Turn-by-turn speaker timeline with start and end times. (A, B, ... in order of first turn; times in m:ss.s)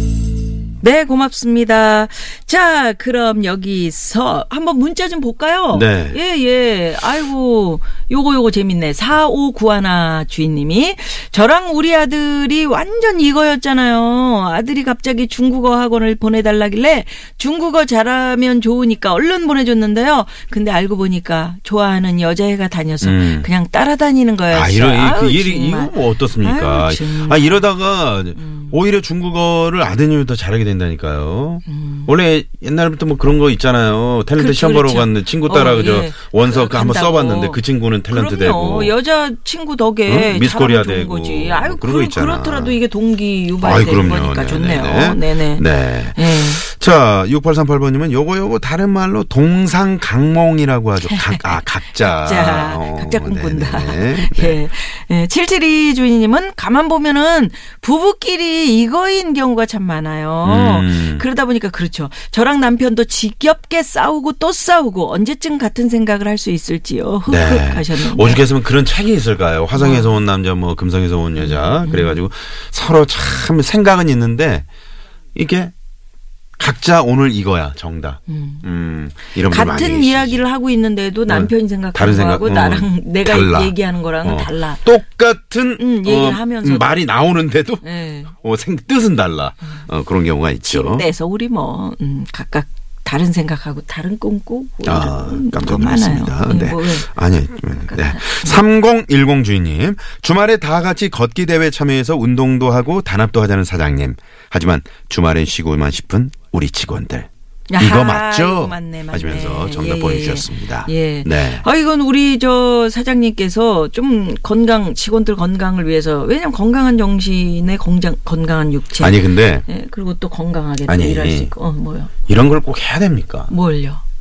0:00.8-0:27.6 A
0:05.7-0:06.2 B
0:23.0-0:23.5 B
0:24.5-0:38.9 B
0:28.4-0:28.8 A
0:31.7-0:32.1 A
0:34.4-0:46.6 A
0:40.1-0:42.8 B
0:43.6-0:54.6 B
0:51.1-0:51.4 A
0:52.0-1:08.4 A
1:00.4-1:01.2 B
1:07.3-1:14.7 B
1:09.7-1:10.1 A
1:11.4-1:12.2 A
1:15.3-1:15.7 B
1:16.6-1:20.4 B
1:18.3-1:18.6 A
1:19.4-1:24.8 A
1:21.3-1:31.1 B
1:25.8-1:26.9 A
1:27.8-1:28.3 A
1:30.6-1:37.1 A
1:34.8-1:51.6 B
1:37.7-1:38.6 A
1:47.7-2:02.1 A
1:59.0-1:59.6 B
2:00.9-2:01.5 B
2:02.3-2:03.5 B
2:03.5-2:04.0 A